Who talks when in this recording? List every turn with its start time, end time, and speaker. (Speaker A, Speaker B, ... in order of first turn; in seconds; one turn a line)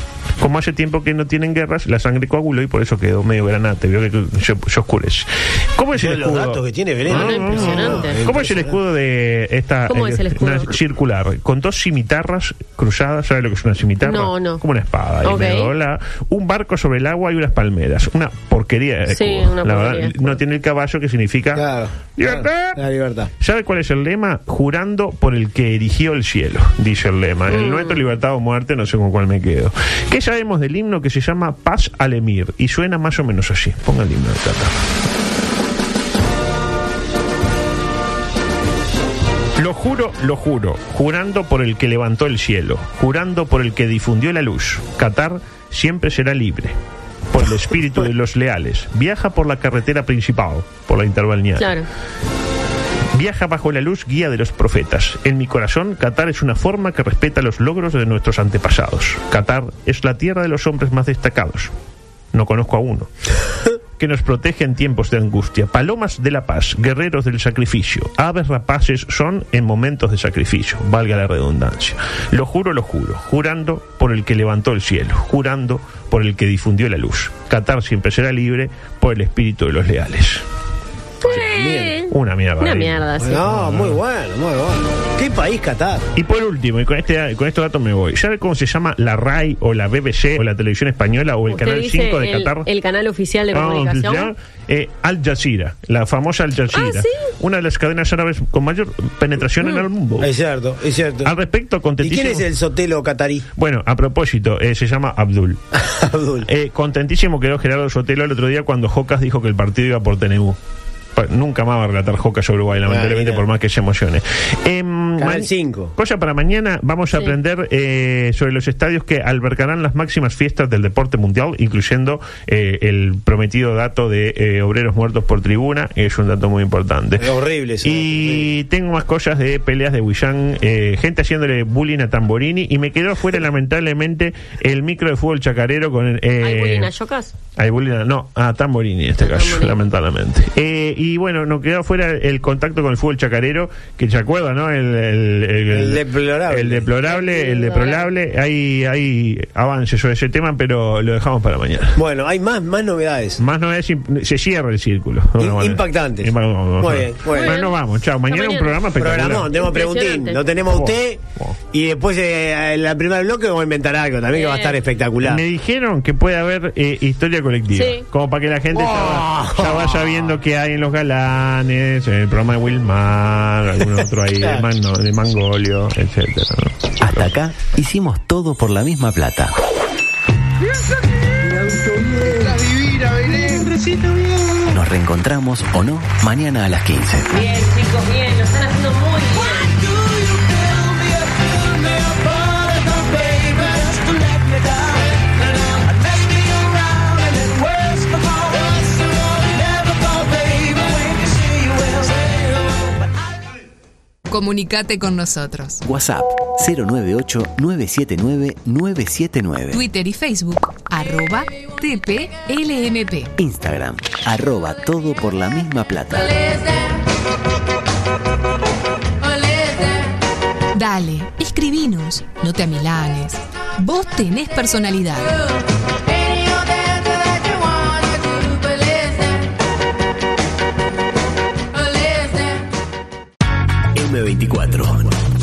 Speaker A: 0.4-22.8
Speaker B: 5.9-8.8
Speaker C: 7.1-8.2
Speaker C: 9.9-10.7
Speaker C: 14.0-14.6
Speaker C: 15.2-15.7
Speaker C: 19.1-20.2
Speaker B: 21.5-23.3
Speaker A: 23.4-34.7
Speaker C: 27.5-28.0
Speaker A: 39.6-46.8
Speaker A: 47.3-51.7
Speaker C: 51.6-51.9
Speaker A: 53.1-61.7
Speaker A: 62.3-63.1
Speaker A: 64.0-80.4
Speaker C: 81.2-83.4
Speaker B: 81.2-82.0
Speaker A: 82.1-84.0
Speaker B: 83.2-86.1
Speaker A: 86.1-92.7
Speaker C: 91.5-94.3
Speaker A: 93.5-100.3
Speaker C: 96.7-97.3
Speaker B: 100.2-101.3
Speaker A: 101.2-102.5
Speaker B: 102.0-103.5
Speaker A: 103.6-105.6
Speaker B: 105.7-106.5
Speaker A: 106.4-110.6
Speaker A: 111.1-127.3
Speaker B: 112.9-113.4
Speaker B: 115.2-115.9
Speaker B: 127.2-128.5
Speaker A: 127.8-136.9
Speaker C: 136.4-137.3
Speaker A: 137.6-152.0
Speaker C: 139.2-139.8
Speaker B: 145.7-146.9
Speaker C: 147.1-148.0
Speaker B: 151.9-153.4
Speaker A: 153.4-159.5
Speaker B: 155.4-157.6
Speaker C: 157.3-157.8
Speaker C: 158.3-158.8
Speaker B: 158.9-161.2
Speaker C: 159.5-160.4
Speaker A: 160.7-161.6
Speaker B: 161.7-165.4
Speaker C: 164.3-164.8
Speaker A: 165.2-177.3
Speaker C: 167.7-168.0
Speaker B: 168.7-170.3
Speaker D: 177.0-179.5
Speaker B: 182.0-182.4
Speaker D: 184.7-187.3
Speaker C: 187.3-189.8
Speaker E: 204.3-205.8
Speaker D: 205.8-209.8
Speaker E: 209.7-213.3
Speaker D: 213.4-216.4
Speaker E: 220.7-225.4
Speaker D: 233.9-235.1